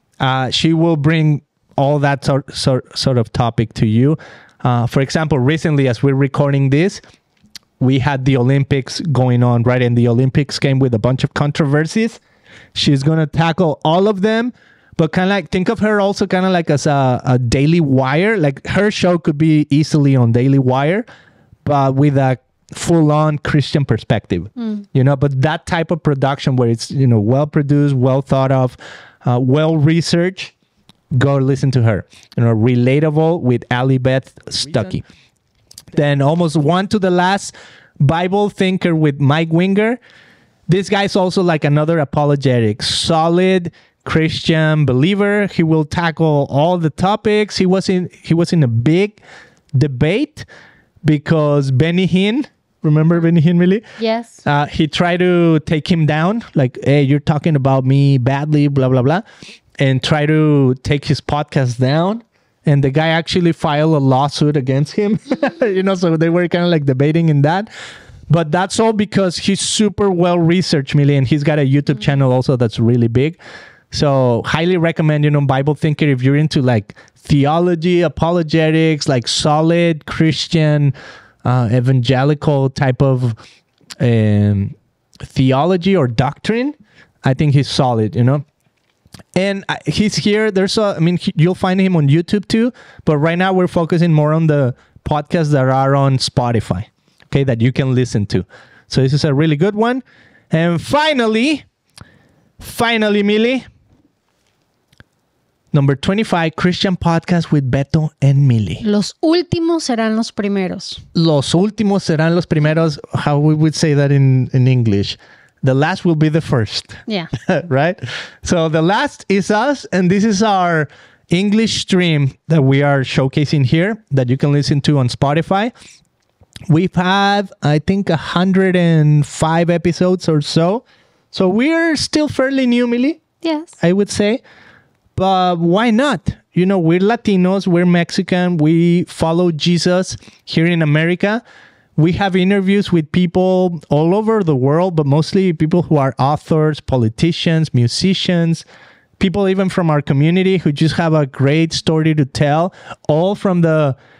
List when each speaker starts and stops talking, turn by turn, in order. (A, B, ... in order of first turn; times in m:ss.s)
0:00.2-0:07.0 A
0:07.8-0:12.2 A
0:12.7-0:21.0 A
0:21.6-0:30.5 A
0:24.6-0:24.8 B
0:31.1-0:35.0 A
0:35.9-0:40.0 A
0:40.7-0:49.2 A
0:49.7-0:50.4 A
0:51.0-0:53.8 A
0:54.0-0:54.4 B
0:54.4-0:59.2 A
0:59.8-1:07.7 A
1:08.3-1:13.4 A
1:13.9-1:23.4 A
1:24.0-1:24.8 A
1:25.3-1:28.4 A
1:29.3-1:41.6 A
1:42.6-1:43.6 A
1:45.7-1:48.8 A
1:48.8-1:51.0 B
1:51.1-2:05.7 A
2:06.7-2:13.2 A
2:13.4-2:13.7 B
2:13.8-2:14.4 A
2:15.2-2:21.4 A
2:22.0-2:28.6 A
2:29.2-2:34.0 A